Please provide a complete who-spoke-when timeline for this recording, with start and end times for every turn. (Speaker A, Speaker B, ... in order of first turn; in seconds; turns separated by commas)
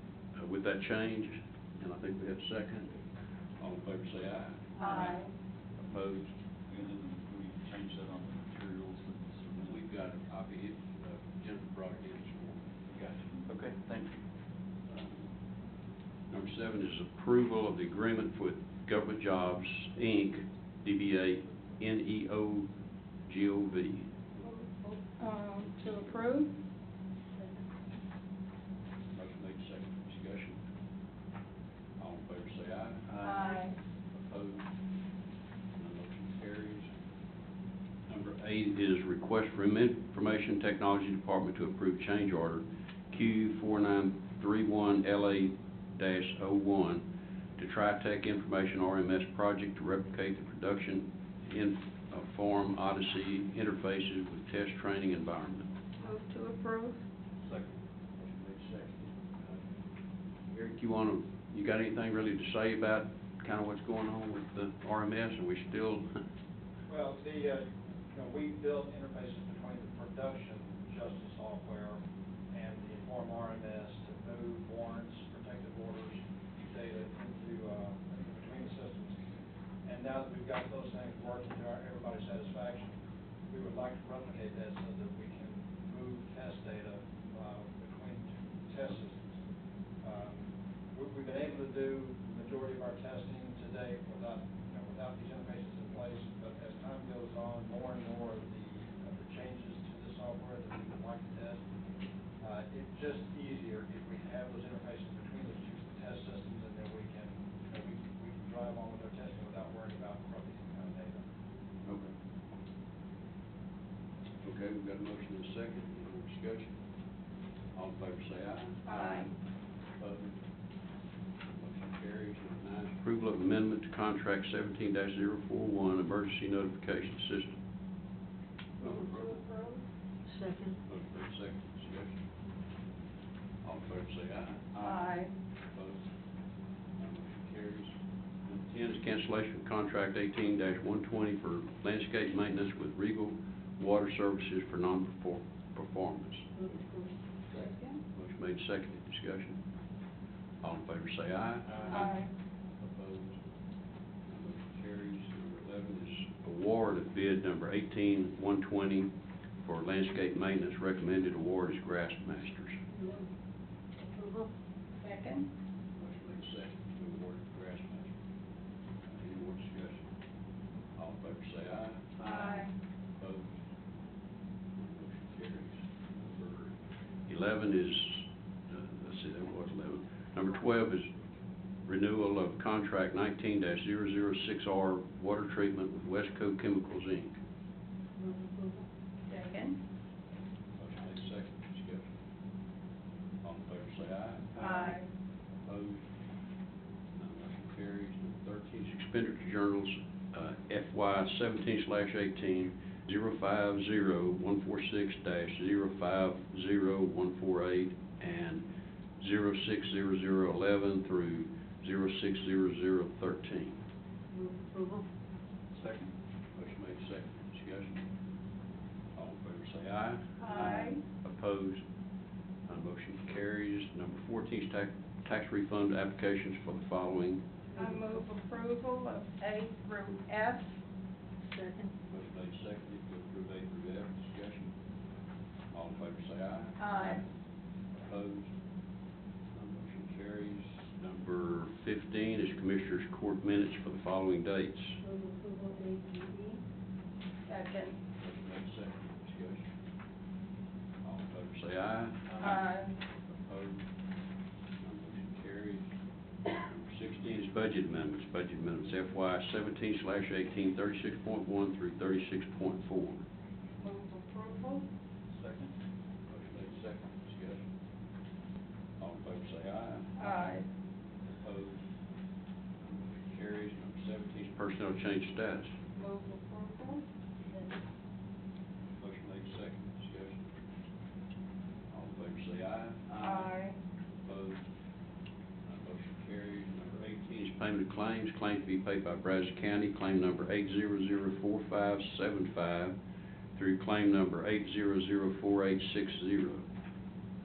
Speaker A: 0.3-3.0, Speaker A: 3.6-5.2, Speaker B: 4.8-5.3, Speaker A: 5.8-6.3, Speaker C: 6.7-9.7, Speaker A: 9.6-12.7, Speaker C: 13.2-14.0, Speaker A: 14.9-15.3, Speaker A: 16.3-22.7, Speaker A: 23.2-24.1, Speaker B: 25.2-26.5, Speaker A: 29.1-30.6, Speaker A: 32.0-33.6, Speaker B: 33.2-33.8, Speaker A: 34.1-34.6, Speaker A: 35.8-36.9, Speaker A: 38.1-47.0, Speaker A: 47.6-55.7, Speaker B: 56.0-57.0, Speaker A: 58.2-59.6, Speaker A: 60.5-66.1, Speaker D: 66.9-79.2, Speaker D: 79.8-83.0, Speaker D: 83.5-89.2, Speaker D: 90.0-101.6, Speaker D: 102.4-111.2, Speaker A: 111.8-112.1, Speaker A: 114.4-116.8, Speaker A: 117.7-119.3, Speaker B: 118.8-119.3, Speaker A: 120.0-120.4, Speaker A: 121.5-127.6, Speaker A: 128.8-129.3, Speaker B: 129.0-129.8, Speaker E: 130.3-130.8, Speaker A: 130.8-132.2, Speaker A: 133.6-135.1, Speaker B: 134.8-135.3, Speaker A: 135.7-136.0, Speaker A: 137.0-137.9, Speaker A: 138.4-146.5, Speaker E: 146.8-147.1, Speaker B: 147.5-148.0, Speaker A: 148.1-149.6, Speaker A: 150.6-152.2, Speaker B: 151.9-152.3, Speaker A: 152.8-153.4, Speaker A: 154.3-162.8, Speaker E: 164.1-164.5, Speaker B: 165.0-165.5, Speaker A: 165.9-168.1, Speaker A: 169.0-170.1, Speaker A: 170.9-173.6, Speaker B: 172.2-172.7, Speaker A: 174.8-176.7, Speaker A: 177.3-181.1, Speaker A: 181.8-187.3, Speaker E: 188.2-188.6, Speaker B: 189.3-189.8, Speaker A: 190.8-192.1, Speaker A: 193.4-194.6, Speaker B: 194.6-195.0, Speaker A: 195.6-196.1, Speaker A: 197.2-208.6, Speaker A: 209.2-213.8, Speaker E: 214.3-215.0, Speaker C: 215.8-216.1, Speaker A: 216.5-218.0, Speaker A: 219.1-221.8, Speaker B: 220.4-221.0, Speaker A: 222.7-227.4, Speaker B: 227.7-230.7, Speaker E: 231.5-231.9, Speaker A: 232.1-234.7, Speaker A: 235.7-237.2, Speaker B: 236.8-237.2, Speaker A: 237.9-238.5, Speaker A: 239.5-245.0, Speaker E: 245.0-246.6, Speaker B: 247.5-248.0, Speaker A: 248.2-249.7, Speaker A: 251.0-252.7, Speaker B: 252.4-252.9, Speaker A: 253.4-253.8, Speaker A: 254.8-255.9, Speaker A: 256.5-263.2, Speaker B: 263.8-264.8, Speaker C: 265.4-265.7, Speaker A: 266.3-267.6, Speaker A: 269.0-270.4, Speaker B: 270.2-270.6, Speaker A: 271.4-271.8, Speaker A: 272.8-275.7, Speaker B: 275.9-277.0, Speaker A: 279.0-280.4, Speaker A: 281.9-283.5, Speaker B: 283.2-283.8, Speaker A: 284.2-284.6, Speaker A: 285.6-292.9, Speaker A: 293.5-296.6